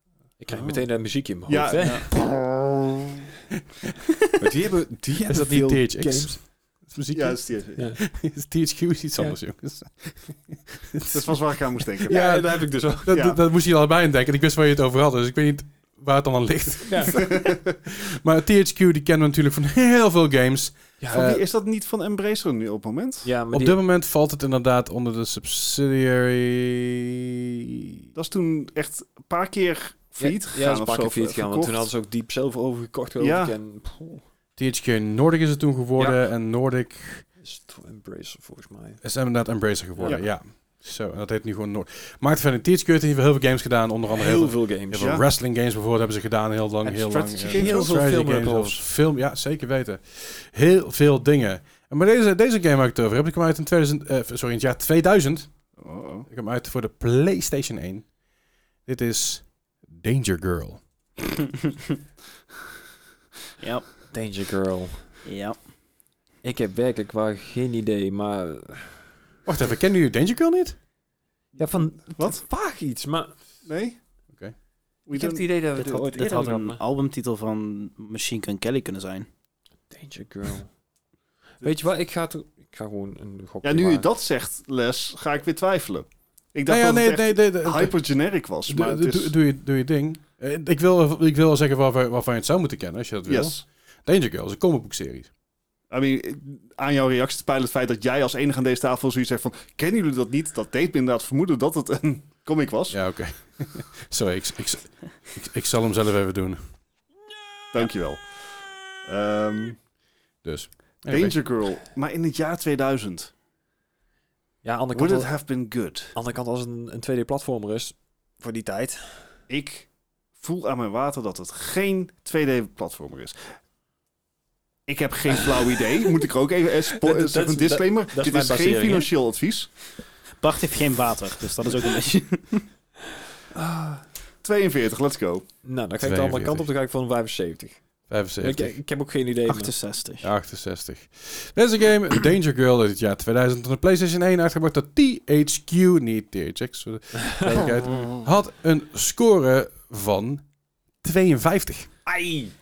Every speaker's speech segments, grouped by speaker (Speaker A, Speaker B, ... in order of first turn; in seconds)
Speaker A: 0.4-2.2, 4.4-6.4, 7.8-8.0, 12.0-13.2, 16.9-17.3, 21.0-21.2, 23.2-23.8, 30.2-34.2, 36.0-36.2, 37.4-39.0, 44.1-45.1, 47.5-48.8, 64.1-65.1, 66.4-69.0, 71.6-73.4, 75.1-76.8, 79.9-80.7, 81.6-84.1, 114.6-115.5, 116.1-119.3, 126.9-129.1, 133.5-134.0, 135.6-137.8, 138.4-139.7, 152.1-152.5
Speaker B: 0.5-0.8, 1.4-2.7, 7.1-7.8, 11.1-12.4, 13.1-13.4, 17.2-17.6, 21.1-23.3, 28.1-31.9, 33.2-33.6, 44.9-45.2, 46.8-48.0, 55.8-56.3, 71.6-72.4, 73.6-74.0, 75.1-75.4, 83.6-89.3, 93.2-93.6, 95.9-103.0, 107.7-108.4, 109.0-109.8, 111.1-113.3, 114.9-116.1, 119.5-123.3, 124.9-129.7, 134.4-135.4
Speaker C: 5.1-21.4, 23.5-27.4, 34.6-37.3, 39.0-55.5, 56.3-58.1, 58.8-60.8, 69.5-70.8, 86.7-88.0, 88.6-95.3, 102.9-106.7, 110.4-111.3, 136.0-136.7, 138.1-138.8, 140.2-150.4, 151.0-151.9
Speaker D: 63.6-63.8, 65.2-65.5, 75.7-79.3, 130.4-132.7, 139.4-140.2